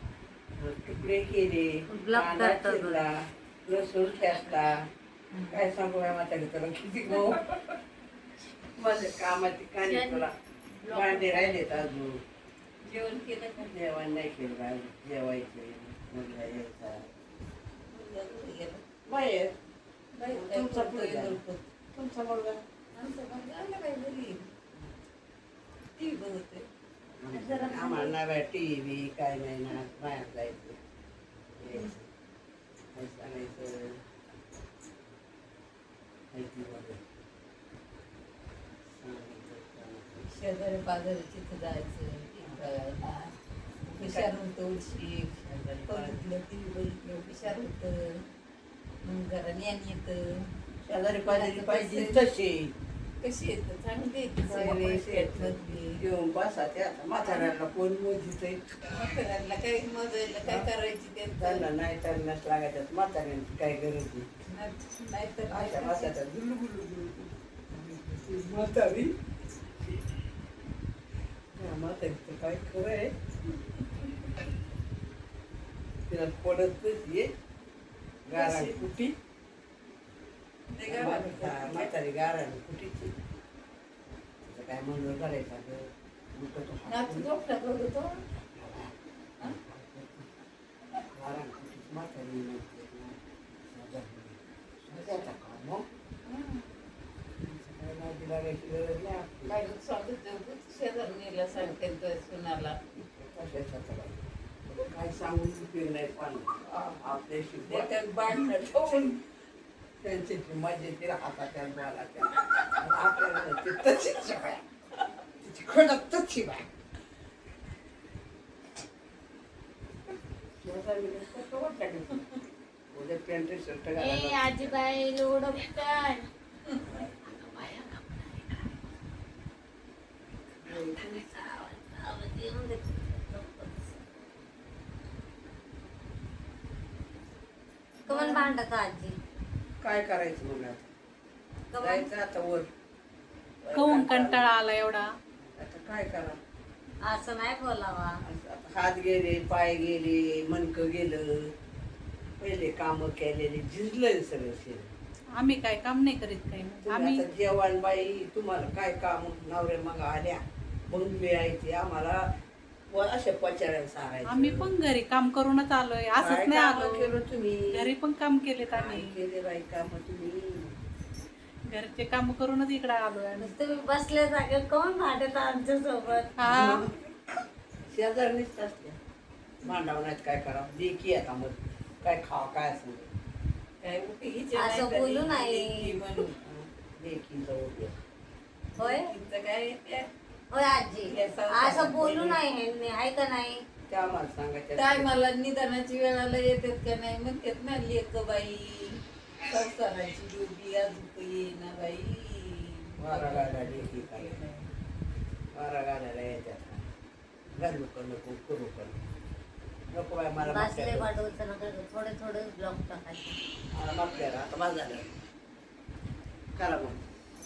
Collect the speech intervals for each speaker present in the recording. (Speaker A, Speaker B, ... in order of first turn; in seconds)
Speaker A: 0.6-4.8, 5.5-7.7, 8.8-10.3, 10.9-12.2, 13.7-17.1, 19.1-19.5, 20.3-21.4, 21.9-22.6, 27.2-30.8, 31.6-32.1, 32.9-34.0, 36.3-37.0, 38.9-40.3, 44.0-44.3, 45.5-46.2, 50.9-52.7, 54.4-58.9, 61.4-64.3, 65.5-69.1, 71.5-73.1, 76.1-77.3, 78.3-78.9, 80.8-83.1, 84.4-87.3, 88.4-90.3, 91.1-95.8, 97.4-99.6, 103.0-107.9, 110.0-114.6, 115.4-116.7, 120.6-122.4, 122.9-124.8, 126.8-127.5, 130.6-131.2, 138.1-138.5, 139.8-140.9, 141.8-142.7, 143.6-144.5, 145.6-146.4, 148.2-151.5, 152.4-154.9, 156.8-162.3, 162.9-164.7, 166.2-167.9, 168.7-170.7, 176.4-176.9, 177.9-179.0, 179.6-183.1, 186.4-187.9, 193.9-195.1, 203.0-204.4, 205.5-206.9, 207.6-209.0, 209.9-211.1, 213.7-215.1, 216.6-217.0
Speaker B: 1.9-3.0, 124.0-126.3, 127.2-128.7, 130.7-134.0, 138.1-139.2, 141.7-142.1, 147.0-148.2, 173.4-176.4, 184.5-186.0, 188.8-189.1, 190.5-193.6, 210.4-213.4
Speaker C: 5.3-5.6, 9.8-10.2, 10.8-11.8, 12.8-13.7, 17.9-18.8, 20.1-21.6, 22.9-24.5, 26.0-26.6, 27.3-28.1, 40.3-43.3, 43.9-48.2, 49.0-50.5, 51.2-52.2, 53.2-56.0, 57.2-57.5, 58.8-61.7, 64.5-66.1, 78.3-79.1, 80.7-81.9, 86.8-88.2, 96.2-96.8, 99.5-102.8, 106.7-107.0, 107.6-109.2, 112.4-112.7, 183.8-186.4, 188.8-190.1, 191.0-192.4, 194.8-204.7
Speaker D: 143.7-145.1, 155.4-157.2, 164.3-167.1, 167.7-169.2, 171.7-173.5, 176.4-176.8